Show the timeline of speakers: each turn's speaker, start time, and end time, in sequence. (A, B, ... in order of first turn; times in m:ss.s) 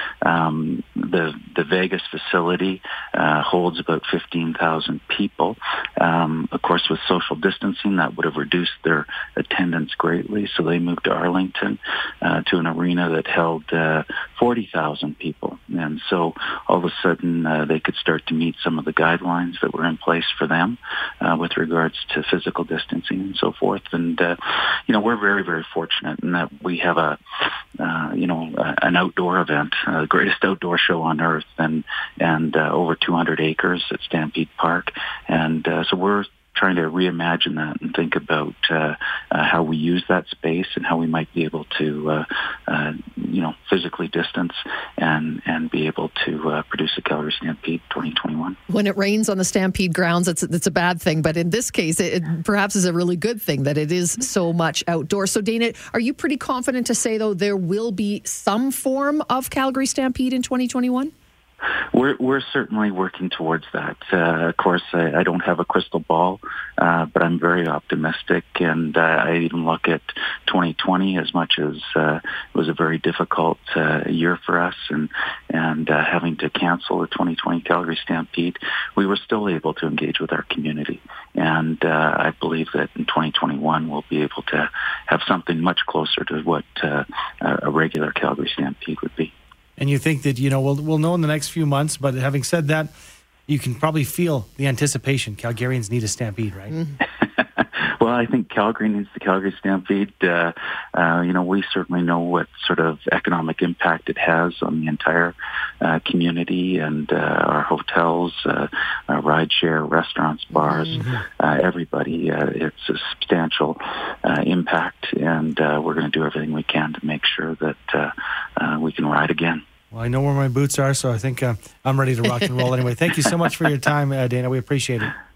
0:00.2-0:27.2 A
0:27.8-0:48.6 A
0:48.7-1:01.1 B
1:01.9-1:29.3 A
1:29.8-1:32.9 C
1:33.5-1:36.8 C
1:37.2-1:59.6 A
1:50.9-1:51.2 C
1:59.9-2:05.1 C